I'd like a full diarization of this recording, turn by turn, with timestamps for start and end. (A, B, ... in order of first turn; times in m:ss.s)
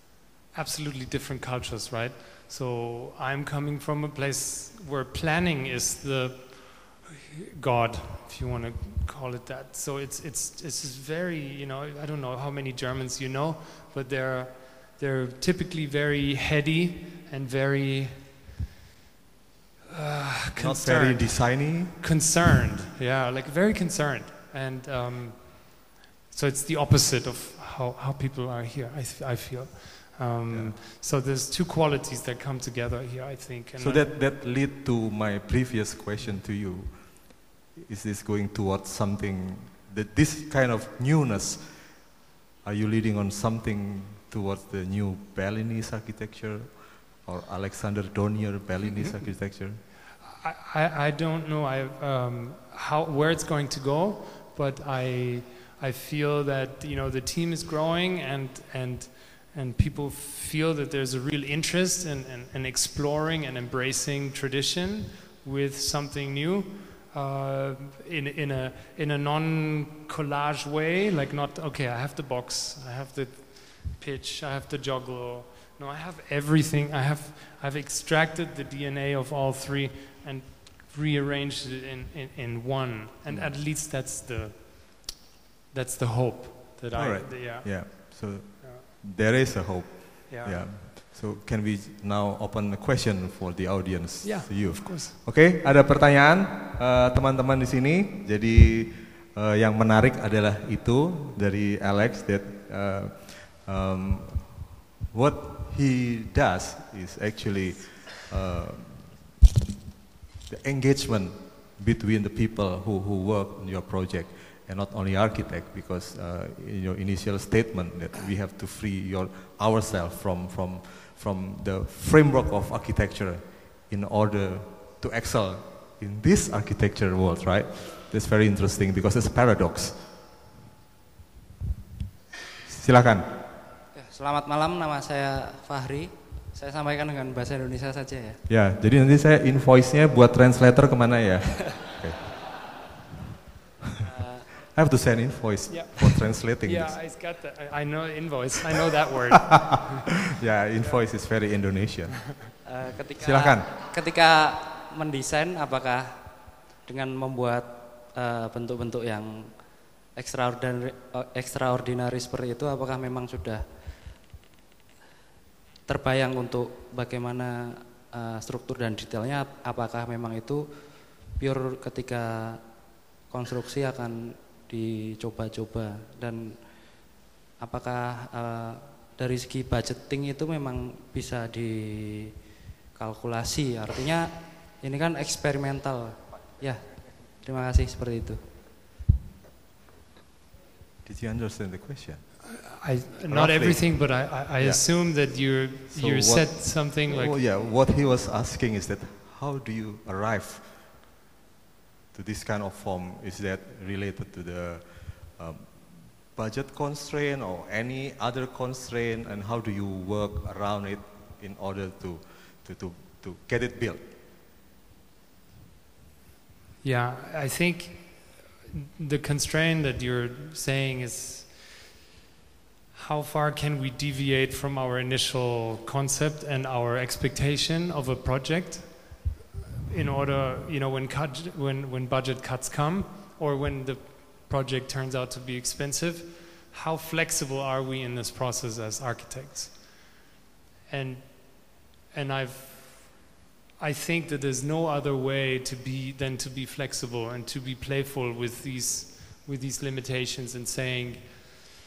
0:00.5-0:18.3 A
0:19.9-0:34.1 A
0:20.6-0:22.2 B
0:30.5-0:30.8 B
0:33.8-0:49.8 B
0:50.2-1:25.1 A
1:23.3-1:23.6 B
1:25.7-1:28.9 A
1:26.9-1:49.3 B
1:30.3-1:30.7 A
1:34.2-1:35.2 A
1:50.5-2:10.0 B
2:12.7-2:13.3 B
2:13.9-2:18.4 C
2:18.5-2:22.3 B
2:24.1-2:24.6 C
2:24.7-2:27.0 B
2:25.7-2:30.1 A
2:29.5-2:32.5 B
2:30.8-2:31.0 A
2:32.7-2:43.6 C
2:33.2-2:33.7 B
2:45.9-2:52.6 C
2:53.2-3:02.2 C
3:03.0-3:08.4 C
3:11.0-3:12.6 B
3:12.6-3:17.4 A
3:13.3-3:21.0 B
3:22.1-3:34.0 B
3:36.8-3:42.0 A
3:42.9-3:49.2 A
3:49.9-4:00.2 A
4:00.9-4:11.7 A